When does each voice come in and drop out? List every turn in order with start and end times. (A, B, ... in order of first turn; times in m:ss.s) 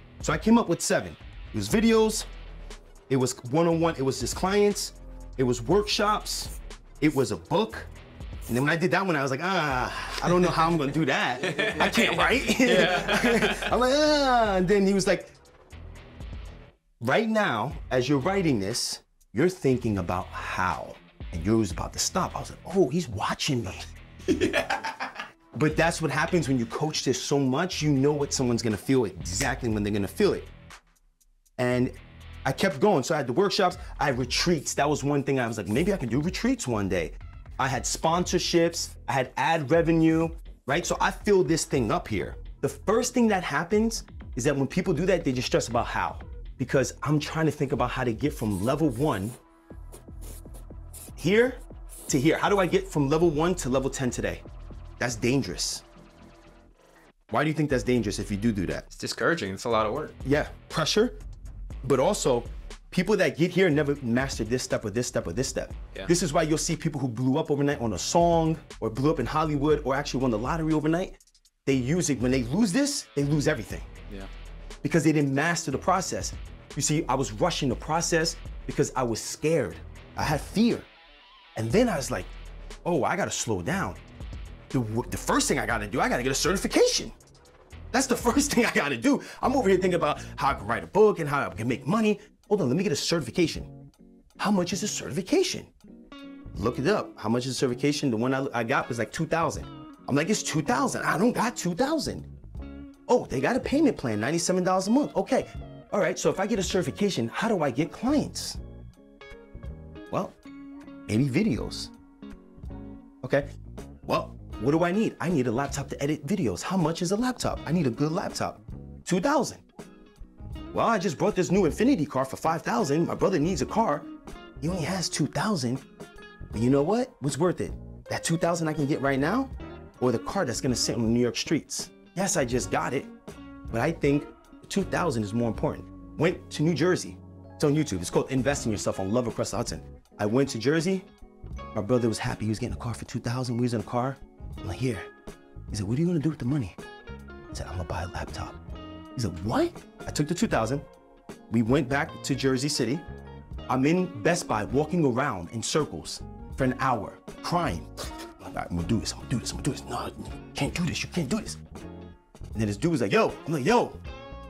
0:00.2-0:02.3 A
0:03.1-0:07.9 A
0:08.5-0:15.4 A
0:11.4-0:13.7 B
0:17.0-0:23.8 A
0:24.3-0:25.1 B
0:25.5-0:30.5 A
0:31.6-0:31.9 A
0:32.4-0:49.4 A
0:51.2-0:54.4 A
0:55.0-0:55.8 A
0:57.3-0:58.8 A
0:58.9-1:00.2 B
1:00.2-1:01.2 A
1:01.8-1:13.9 A
1:14.8-1:20.9 A
1:21.6-1:22.3 A
1:22.8-1:24.0 A
1:24.7-1:27.1 A
1:27.9-1:33.7 A
1:34.4-1:35.7 A
1:36.5-1:42.3 A
1:43.1-1:48.6 A
1:51.1-1:51.9 A
1:53.2-1:53.5 A
1:54.0-1:59.6 A
2:00.7-2:04.1 A
2:04.6-2:05.8 A
2:06.5-2:13.1 A
2:13.7-2:21.1 A
2:21.7-2:25.0 A
2:25.7-2:26.8 A
2:27.5-2:28.6 A
2:29.2-2:30.8 A
2:31.5-2:33.0 A
2:33.7-2:41.6 A
2:42.5-2:44.0 A